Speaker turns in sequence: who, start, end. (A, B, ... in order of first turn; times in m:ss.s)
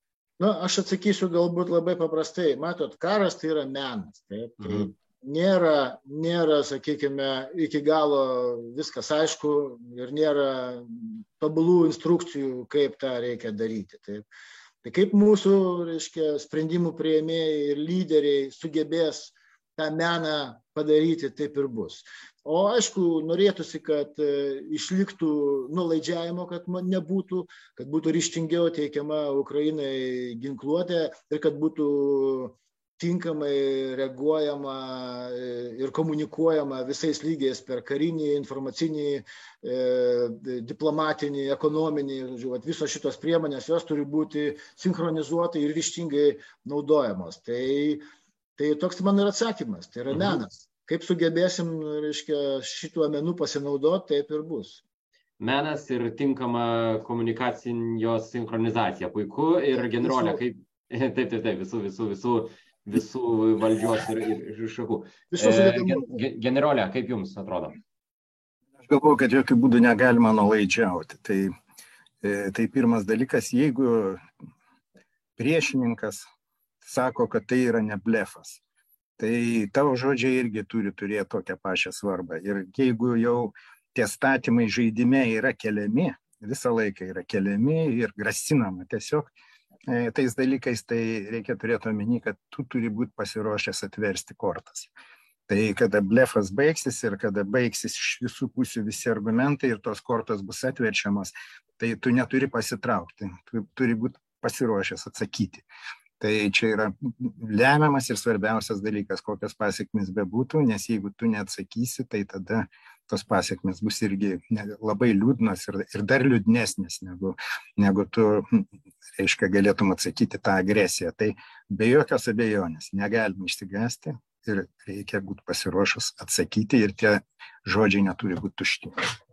0:00.4-0:14.2 A
0:04.6-0:04.9 B
0:14.8-0:48.0 A
0:48.6-0:54.8 A
0:50.1-0:50.4 B
0:55.4-1:07.8 B
0:59.8-1:00.4 A
1:05.3-1:06.1 A
1:08.8-1:11.5 C
1:12.2-1:14.2 C
1:15.4-1:16.2 C
1:16.8-1:18.6 C
1:19.2-1:29.3 C
1:29.9-1:34.9 C
1:35.5-1:45.6 C
1:46.2-1:58.6 C
1:59.2-2:09.1 C